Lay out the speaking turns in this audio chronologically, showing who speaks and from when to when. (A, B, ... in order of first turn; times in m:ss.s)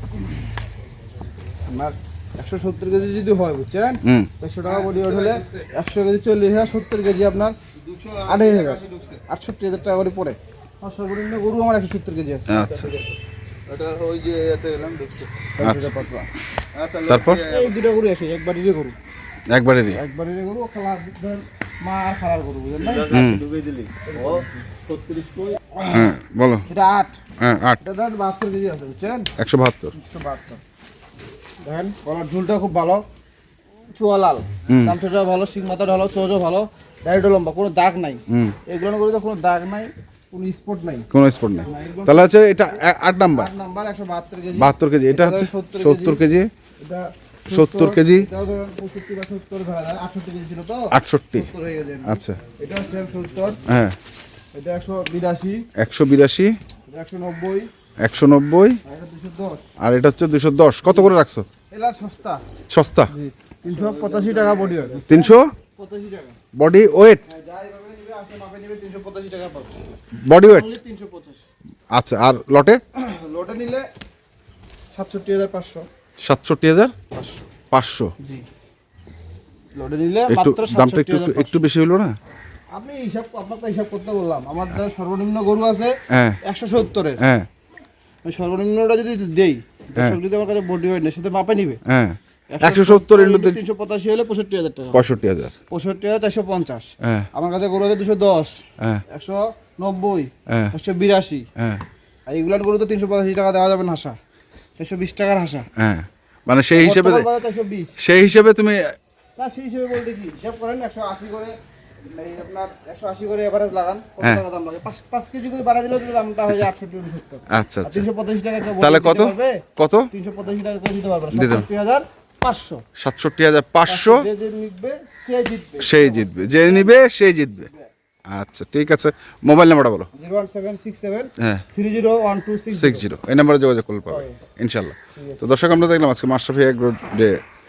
0:01.7-0:07.6 A
0:04.0-0:04.3 B
0:07.8-0:09.2 C
0:08.3-0:12.8 A
0:12.5-0:12.9 B
0:13.7-0:15.5 C
0:15.6-0:16.3 A
0:15.6-0:15.9 B
0:16.7-0:17.7 C
0:17.1-0:17.4 B
0:17.4-0:19.0 A
0:19.5-0:20.0 B
0:19.9-0:23.2 A
0:22.9-0:25.6 C
0:23.1-0:23.5 B
0:24.1-0:24.6 A
0:25.8-0:26.1 A
0:25.9-0:26.7 B
0:26.7-0:27.2 A
0:27.4-0:27.8 B
0:27.8-0:29.3 A
0:29.4-0:29.9 B
0:29.9-0:30.6 A
0:31.6-0:33.0 A
0:33.9-0:41.1 A
0:34.7-0:35.0 B
0:38.3-0:38.6 B
0:41.1-0:43.5 B
0:41.6-0:42.3 A
0:43.3-0:46.2 A
0:44.5-0:46.5 B
0:46.8-0:53.6 A
0:47.5-0:48.3 B
0:50.9-0:51.5 B
0:52.0-0:52.4 B
0:53.7-0:54.0 B
0:54.5-0:55.7 A
0:55.8-0:56.6 B
0:56.9-0:57.7 A
0:58.0-0:58.8 B
0:58.8-0:59.6 A
0:59.8-1:01.5 B
1:00.9-1:01.1 A
1:01.7-1:02.4 A
1:02.7-1:03.1 B
1:03.1-1:06.4 A
1:05.1-1:05.5 B
1:06.5-1:07.2 B
1:07.2-1:11.4 A
1:10.2-1:10.7 B
1:11.9-1:12.8 B
1:13.0-1:13.9 A
1:14.9-1:15.8 A
1:16.2-1:17.0 B
1:17.1-1:17.4 A
1:17.7-1:18.1 B
1:18.2-1:18.4 A
1:19.8-1:21.6 A
1:20.3-1:22.2 B
1:22.7-1:27.2 A
1:26.1-1:26.4 B
1:27.2-1:27.5 B
1:28.2-1:31.8 A
1:31.9-1:33.6 B
1:32.5-1:35.0 A
1:34.9-1:35.5 B
1:35.7-1:41.5 A
1:37.0-1:37.3 B
1:40.5-1:40.7 B
1:41.6-1:41.8 B
1:42.3-1:44.2 A
1:44.8-1:45.7 A
1:45.8-1:47.3 B
1:46.8-1:48.0 A
1:48.0-1:49.0 B
1:49.4-1:51.6 A
1:52.1-2:02.8 A
1:57.5-1:58.0 B
1:58.7-2:00.1 B
2:01.3-2:01.7 B
2:03.0-2:04.3 B
2:03.9-2:07.0 A
2:05.8-2:07.7 B
2:07.6-2:07.9 A
2:08.3-2:10.1 B
2:10.1-2:13.0 A
2:12.7-2:17.4 B
2:14.1-2:14.4 A
2:15.2-2:15.5 A